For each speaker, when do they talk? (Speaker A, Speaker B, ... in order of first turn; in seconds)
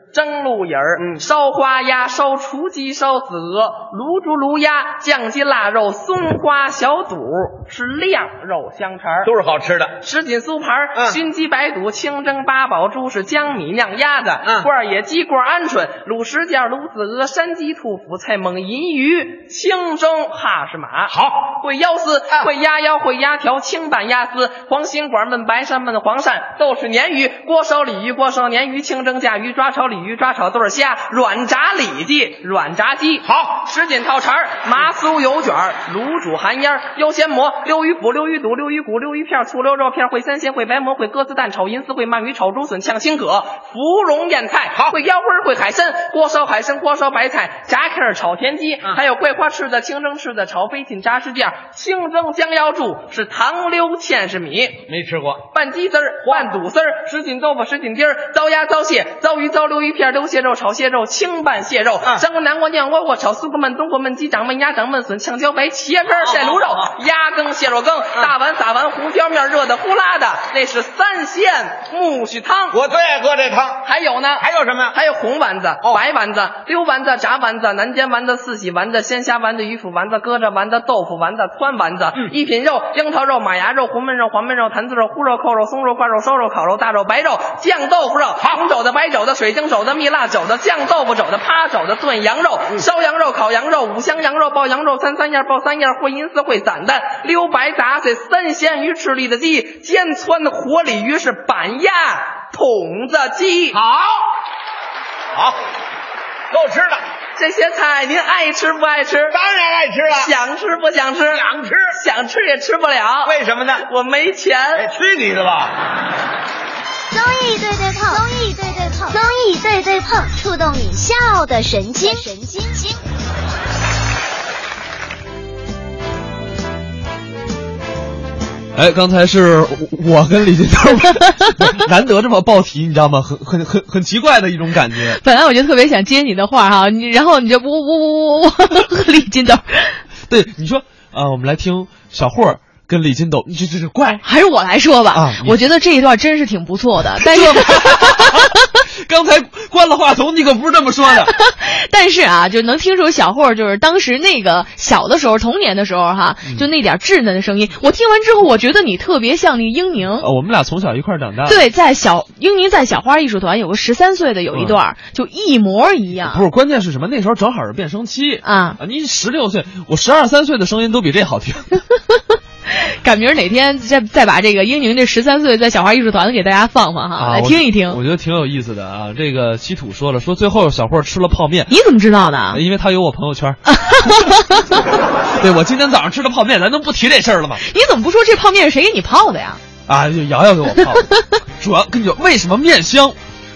Speaker A: 0.1-9.3, 10.0-54.8, 55.5-72.8, 73.8-103.8, 107.3-109.3, 110.1-114.9
Speaker B: 9.2-10.0, 14.4-14.7, 21.1-21.6, 33.2-33.6, 54.9-55.5, 56.2-56.5, 66.2-66.9, 72.7-73.8, 74.4-74.9, 103.7-104.3, 106.5-107.0, 109.3-110.3, 111.2-111.9, 113.2-113.8, 114.8-115.7
Speaker C: 117.1-123.0
Speaker D: 128.8-135.2, 140.3-144.2, 145.1-145.6, 147.2-148.5, 149.1-151.3, 160.2-161.6, 166.2-171.8, 177.2-181.7, 182.5-184.5, 185.4-187.6, 189.9-191.1, 191.6-193.1
Speaker E: 135.2-140.0, 144.2-148.4, 151.3-160.3, 161.5-166.4, 168.4-168.8, 173.0-178.0, 181.7-182.6, 183.7-184.5, 187.7-189.6